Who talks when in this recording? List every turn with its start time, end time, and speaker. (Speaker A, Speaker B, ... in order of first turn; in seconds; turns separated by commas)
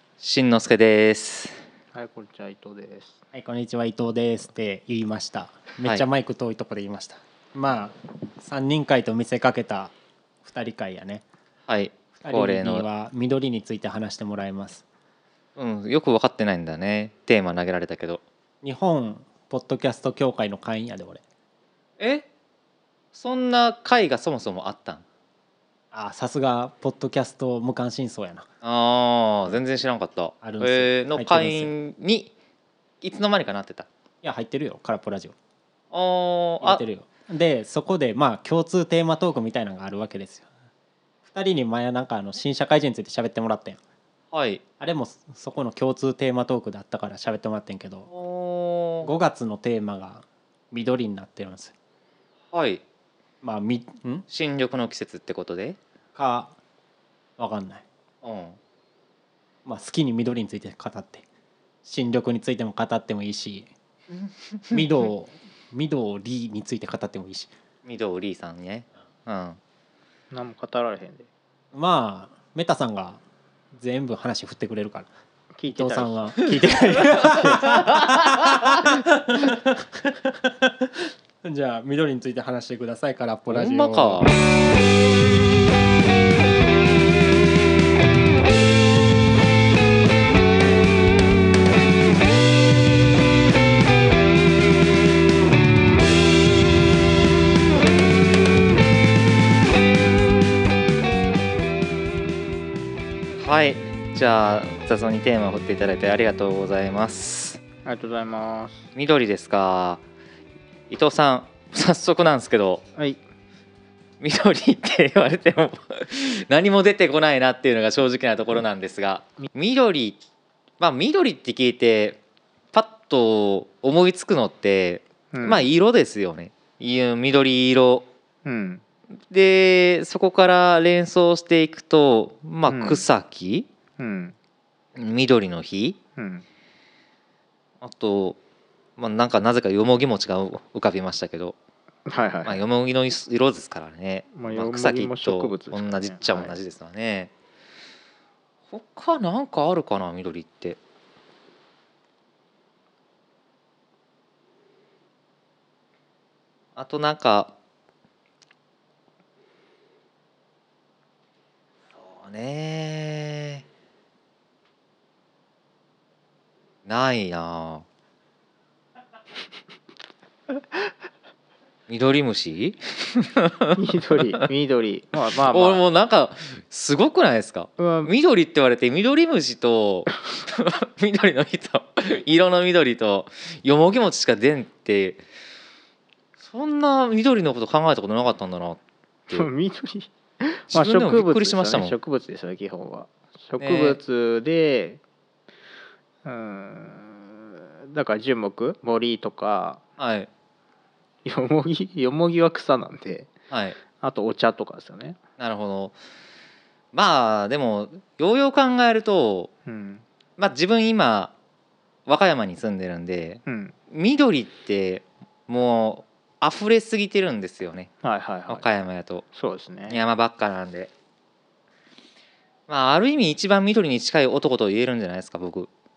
Speaker A: 0.2-1.6, Speaker B: 1.9-3.2, Speaker C: 3.3-9.9, Speaker C: 10.4-11.2, Speaker A: 11.7-12.8, Speaker C: 12.2-14.8, Speaker A: 15.6-18.2, Speaker C: 18.6-21.2, Speaker A: 22.0-22.3, Speaker A: 23.1-25.0, Speaker C: 25.9-28.5, Speaker A: 28.6-32.3, Speaker C: 30.4-31.7, Speaker A: 33.0-33.9, Speaker C: 34.2-35.3, Speaker A: 35.9-36.8, Speaker C: 36.6-40.5, Speaker C: 41.3-43.8, Speaker A: 44.3-44.6, Speaker C: 44.8-48.1, Speaker A: 48.1-49.1, Speaker C: 49.0-51.7, Speaker A: 52.5-52.8, Speaker C: 53.4-54.3, Speaker A: 54.3-55.8, Speaker C: 56.2-56.5, Speaker C: 57.4-57.8, Speaker A: 58.2-58.6, Speaker C: 59.6-61.2, Speaker C: 61.9-63.7, Speaker C: 64.7-67.5, Speaker A: 67.8-69.6, Speaker B: 70.3-71.3, Speaker C: 71.7-73.2, Speaker C: 73.7-75.1, Speaker B: 75.5-77.3, Speaker C: 75.7-84.3, Speaker A: 77.2-78.7, Speaker A: 83.5-84.4, Speaker A: 103.4-107.6, Speaker B: 107.8-108.9, Speaker A: 109.0-110.0, Speaker A: 110.9-112.8, Speaker A: 114.2-120.2, Speaker A: 120.8-122.2, Speaker A: 122.7-128.1, Speaker B: 125.3-125.7, Speaker B: 128.4-128.8, Speaker A: 129.3-133.7, Speaker B: 132.7-133.0, Speaker B: 134.0-134.3, Speaker A: 134.9-136.0, Speaker B: 136.2-136.4, Speaker A: 137.8-138.4, Speaker A: 139.0-141.6, Speaker B: 142.1-142.6, Speaker A: 142.4-147.3, Speaker B: 144.3-146.6, Speaker A: 148.7-150.8, Speaker A: 156.8-157.5, Speaker A: 162.0-163.6, Speaker A: 166.8-167.8, Speaker A: 171.9-173.8, Speaker B: 173.8-175.8, Speaker A: 175.4-185.2, Speaker B: 177.8-178.1, Speaker A: 186.4-189.5, Speaker B: 189.3-195.0, Speaker A: 190.7-192.0, Speaker A: 193.6-194.0, Speaker B: 196.2-199.8, Speaker A: 200.0-200.3, Speaker B: 201.2-203.3, Speaker A: 203.5-203.8, Speaker B: 204.0-205.2, Speaker A: 205.4-205.9, Speaker A: 206.9-209.5, Speaker B: 209.7-210.0, Speaker A: 210.4-211.3, Speaker A: 212.1-217.9, Speaker B: 213.5-213.8, Speaker B: 218.0-218.7, Speaker A: 218.5-219.2, Speaker B: 219.3-220.0, Speaker A: 219.9-220.9, Speaker A: 222.7-225.7